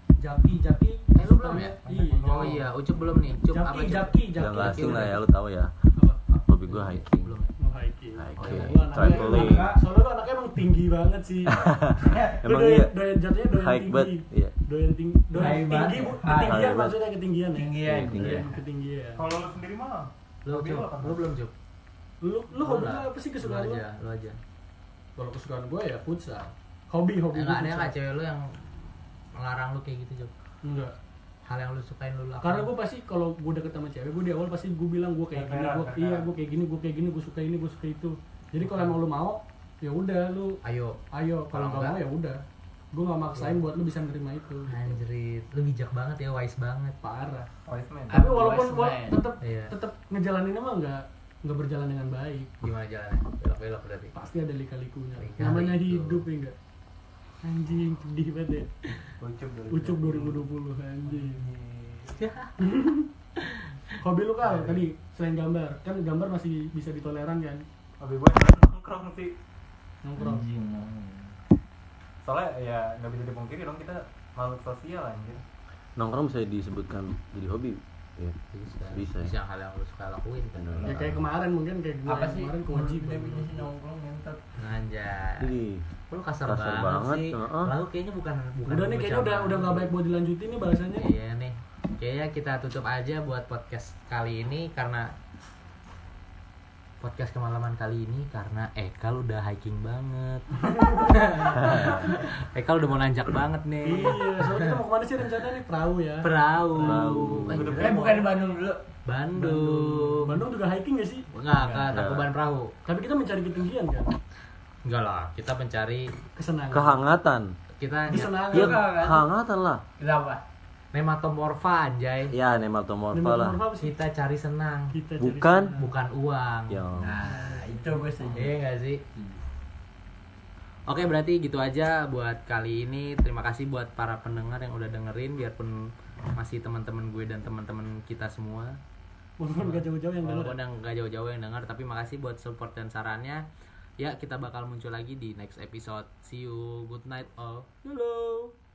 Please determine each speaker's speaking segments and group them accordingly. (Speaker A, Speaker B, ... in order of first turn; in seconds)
Speaker A: 0.2-2.6, 3.5-5.2, 7.6-19.3, 22.2-23.8, 25.2-27.9, 30.6-30.9, 32.4-40.6, 41.1-42.4, 42.9-45.0, 47.0-47.5, 48.1-52.5, 54.1-56.5, 57.4-58.8, 59.7-61.4, 62.6-63.1, 64.0-67.6, 70.0-70.4, 80.8-83.7, 88.7-91.1, 100.7-101.1, 103.8-107.5, 109.3-111.3, 112.9-114.2, 116.4-117.0, 118.1-118.9, 123.1-124.0, 124.9-125.9, 127.3-127.8, 139.4-140.6, 147.8-148.5
Speaker B: 1.2-1.8, 2.3-5.2, 6.3-7.5, 8.4-8.8, 20.4-21.5, 22.6-24.4, 27.3-30.3, 31.4-32.7, 38.6-39.0, 40.6-41.0, 41.5-42.0, 43.3-43.6, 44.7-47.0, 49.4-49.8, 52.6-54.1, 55.2-56.2, 62.2-62.5, 63.4-63.8, 78.5-80.8, 84.6-85.5, 86.1-89.9, 91.0-95.1, 97.0-104.8, 106.2-108.3, 109.1-110.4, 111.3-112.8, 114.8-116.1, 117.8-118.5, 120.9-122.3, 123.8-125.0, 125.8-126.8, 128.4-129.0, 130.9-138.8, 139.6-143.4, 144.0-147.7
Speaker C: 1.9-2.7, 19.2-21.2, 35.3-36.3, 47.7-48.2, 59.0-60.5, 61.0-62.3, 64.4-64.8, 68.0-69.4, 72.2-75.4, 107.5-108.3
Speaker D: 4.4-5.7, 6.5-7.3, 8.2-9.7, 11.5-13.0, 13.5-14.5, 16.4-17.0, 17.9-18.5, 76.0-78.4, 78.9-79.3, 80.5-81.2, 85.4-85.8, 86.5-87.7, 101.6-102.0, 106.8-107.8, 111.9-112.3, 116.7-117.5, 118.5-119.8, 122.3-123.6, 125.2-125.8, 126.7-127.2
Speaker E: 9.0-9.8, 15.3-16.6, 17.5-18.6, 48.1-49.2, 70.2-71.3, 80.8-81.1, 82.1-84.4, 107.6-108.8, 111.6-112.0, 118.4-119.3, 120.0-120.4, 127.0-128.6, 129.1-129.4